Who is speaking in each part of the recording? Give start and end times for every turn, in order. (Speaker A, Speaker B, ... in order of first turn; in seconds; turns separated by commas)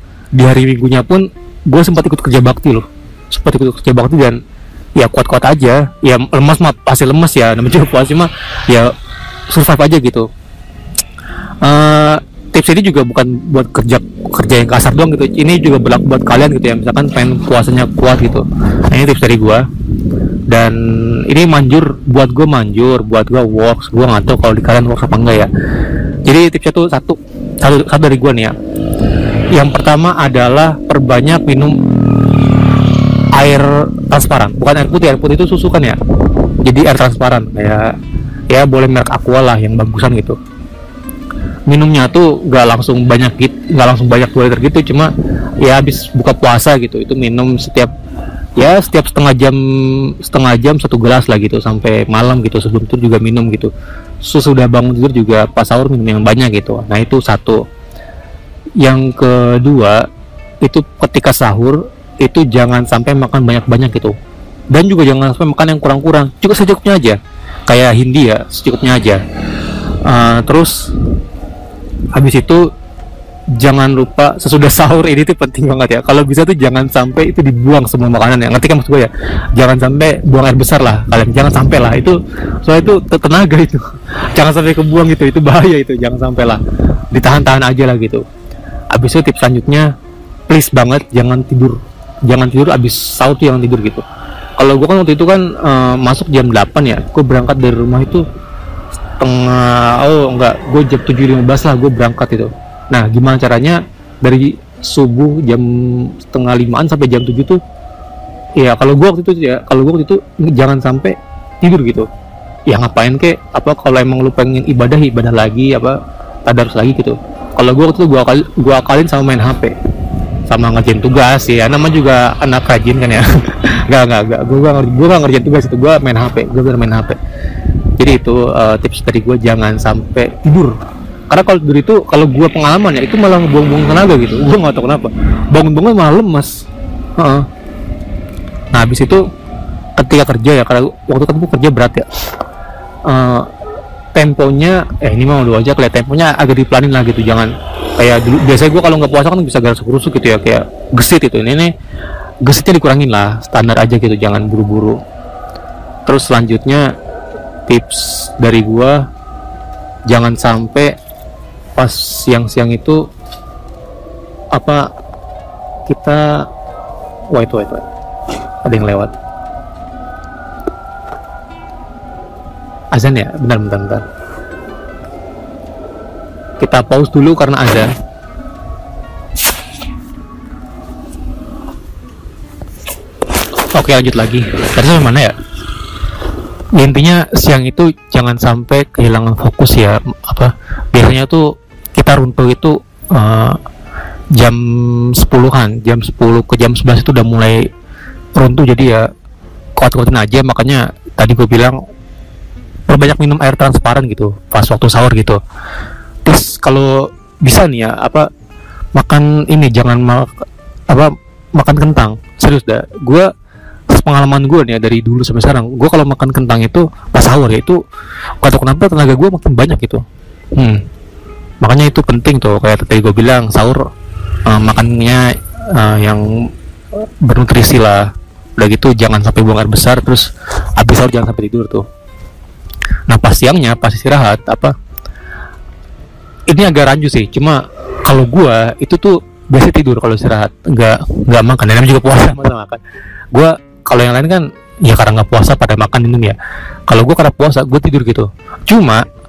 Speaker A: 0.3-4.4, Speaker A: 5.0-8.9, Speaker A: 9.5-10.3, Speaker A: 11.6-19.6, Speaker A: 20.5-25.5, Speaker A: 26.2-28.5, Speaker A: 29.5-31.8, Speaker A: 33.3-36.0, Speaker A: 36.6-37.9, Speaker A: 38.5-40.4, Speaker A: 41.7-45.1, Speaker A: 45.6-47.9, Speaker A: 48.5-53.7, Speaker A: 54.2-57.6, Speaker A: 58.8-60.0, Speaker A: 60.6-64.1, Speaker A: 64.7-67.2, Speaker A: 67.7-69.2, Speaker A: 70.0-70.9, Speaker A: 72.1-72.7, Speaker A: 73.6-86.6, Speaker A: 87.1-88.2, Speaker A: 88.9-89.9, Speaker A: 90.5-94.0, Speaker A: 94.6-98.2, Speaker A: 99.2-107.6, Speaker A: 108.6-112.1, Speaker A: 112.7-119.7, Speaker A: 120.5-127.2, Speaker A: 128.0-130.8, Speaker A: 131.3-136.5, Speaker A: 137.2-137.4, Speaker A: 138.7-139.2, Speaker A: 140.0-142.1, Speaker A: 143.1-143.5, Speaker A: 144.1-151.7, Speaker A: 152.4-155.0, Speaker A: 156.1-156.9, Speaker A: 157.7-159.0, Speaker A: 160.1-160.9, Speaker A: 161.8-163.0, Speaker A: 164.5-164.8, Speaker A: 165.8-166.4, Speaker A: 167.3-167.8, Speaker A: 168.6-169.1, Speaker A: 172.9-174.0, Speaker A: 176.6-177.9, Speaker A: 183.7-185.3, Speaker A: 186.7-193.6, Speaker A: 194.4-197.7, Speaker A: 198.3-199.1, Speaker A: 199.8-201.8, Speaker A: 202.9-205.4, Speaker A: 206.2-208.3, Speaker A: 208.9-213.3, Speaker A: 213.9-217.8, Speaker A: 218.4-220.0, Speaker A: 220.6-220.8, Speaker A: 221.6-223.8, Speaker A: 224.4-226.3, Speaker A: 227.0-231.8, Speaker A: 233.1-234.7, Speaker A: 236.5-242.8, Speaker A: 243.3-246.4, Speaker A: 246.9-249.0